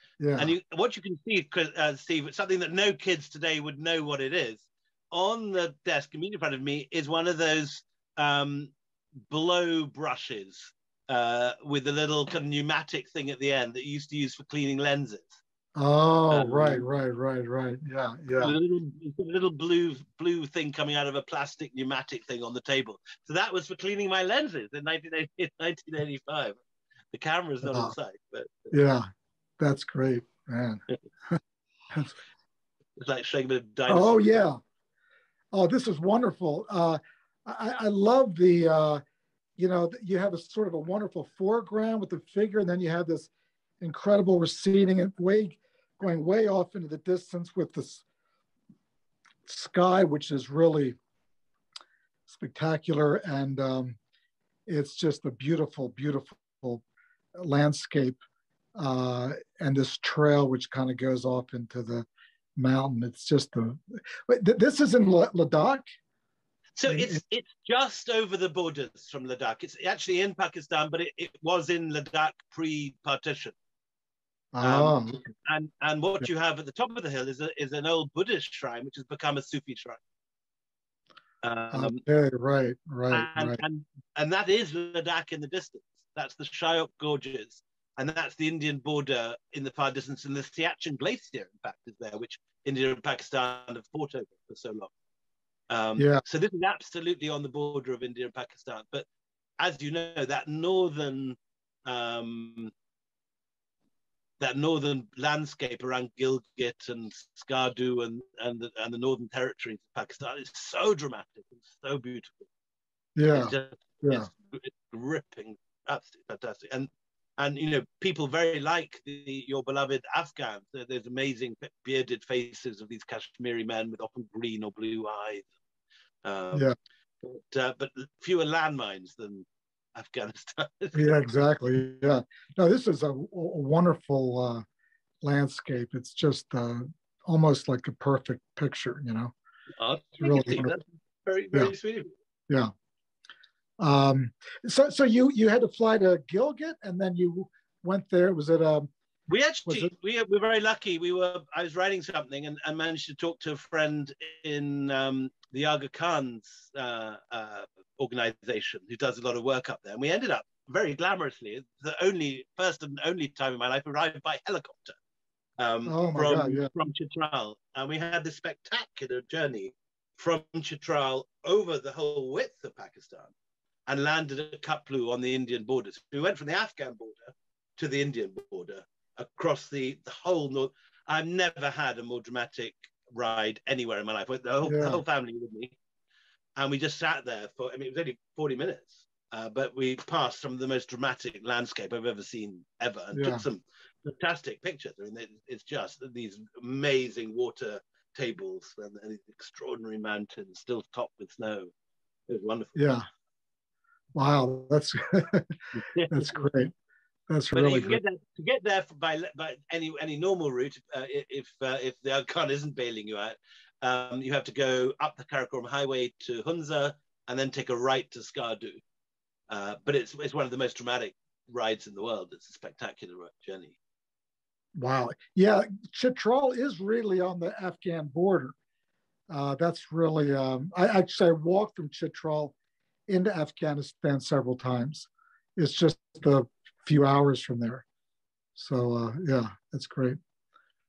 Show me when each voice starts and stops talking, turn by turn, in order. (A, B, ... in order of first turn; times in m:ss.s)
0:00.2-0:00.5 A
0:00.4-0:08.7 B
0:09.3-0:15.4 B
0:15.8-0:18.6 A
0:16.3-0:16.8 B
0:18.4-0:26.6 B
0:27.1-0:28.7 B
0:27.6-0:27.9 A
0:28.7-0:29.1 A
0:29.6-0:31.4 A
0:33.0-0:34.4 B
0:33.9-0:34.6 A
0:35.5-0:39.0 A
0:39.6-0:43.3 A
0:43.8-0:48.0 A
0:49.4-0:51.0 A
0:52.3-0:54.0 A
0:54.7-0:56.8 A
0:57.4-0:58.2 A
0:58.8-1:05.8 A
1:06.8-1:13.5 B
1:06.9-1:07.2 A
1:14.5-1:15.3 A
1:14.6-1:20.0 B
1:21.4-1:22.0 B
1:21.7-1:23.6 A
1:23.1-1:34.9 B
1:35.7-1:39.0 B
1:39.6-1:42.7 B
1:44.4-1:52.5 B
1:53.2-1:54.3 A
1:53.3-2:05.4 B
2:06.2-2:06.7 B
2:07.2-2:11.1 B
2:10.9-2:14.6 A
2:15.2-2:19.3 A
2:19.8-2:22.1 B
2:20.2-2:20.7 A
2:23.8-2:28.9 A
2:29.3-2:45.0 B
2:45.6-2:53.3 B
2:45.8-2:46.7 A
2:53.9-3:05.8 B
3:04.6-3:05.0 A
3:06.6-3:21.7 B
3:13.1-3:13.4 A
3:22.3-3:22.8 B
3:22.7-3:23.0 A
3:24.1-3:26.7 A
3:25.8-3:26.5 B
3:27.3-3:28.0 A
3:27.5-3:38.8 B
3:39.5-3:43.8 B
3:44.8-3:48.5 A
3:49.3-3:52.5 A
3:53.1-3:57.8 A
3:58.6-4:00.2 A